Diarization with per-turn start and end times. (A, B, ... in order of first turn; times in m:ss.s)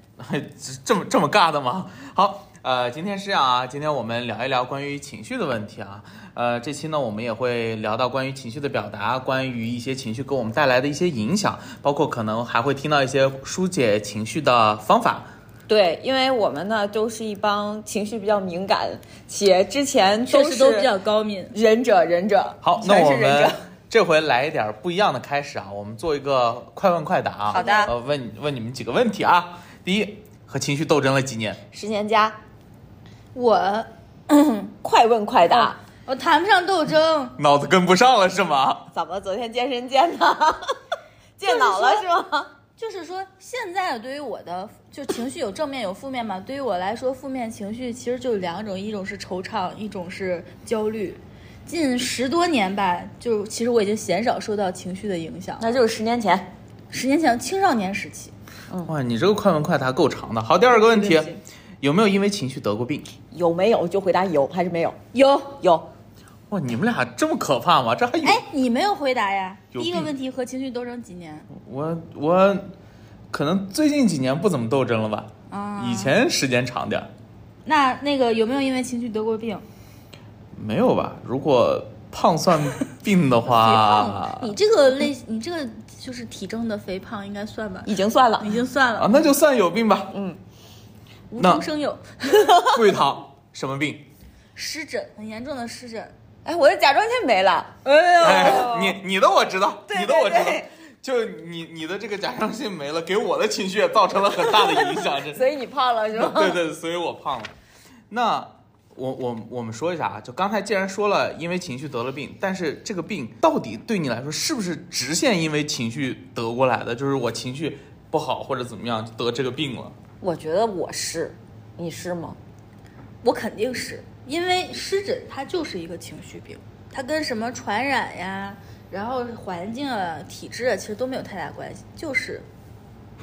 0:00.2-0:15.3 A
0:15.7-0:20.9 B
0:20.3-0:21.5 C
0:21.5-0:23.6 B
0:22.6-0:31.6 A
0:27.5-0:27.9 B
0:27.5-0:27.9 C
0:31.7-0:32.4 B
0:33.4-0:34.7 C
0:34.8-0:35.8 B
0:35.5-0:37.4 C
0:37.4-0:38.9 A
0:38.9-0:40.8 B
0:41.4-0:42.5 B
0:41.4-0:42.0 C
0:42.8-0:55.8 C
0:55.6-0:56.5 B
0:56.9-0:58.3 C
0:58.9-1:03.1 A
1:00.8-1:01.4 C
1:03.3-1:05.0 B
1:05.1-1:05.6 C
1:05.6-1:05.9 B
1:06.5-1:08.4 A
1:08.2-1:11.5 C
1:09.7-1:10.1 A
1:11.5-1:12.7 A
1:13.3-1:17.1 A
1:15.5-1:16.1 C
1:17.7-1:19.6 C
1:20.5-1:24.6 A
1:23.5-1:29.1 C
1:27.9-1:28.6 B
1:29.0-1:30.1 A
1:30.1-1:30.4 B
1:31.3-1:32.7 C
1:31.4-1:31.6 A
1:32.6-1:34.1 A
1:34.6-1:36.1 C
1:36.4-1:39.0 B
1:37.8-1:38.7 C
1:38.2-1:45.4 A
1:39.9-1:40.7 B
1:45.3-1:46.6 B
1:46.2-1:47.5 A
1:48.1-2:00.0 A
2:00.2-2:02.4 B
2:03.2-2:12.5 C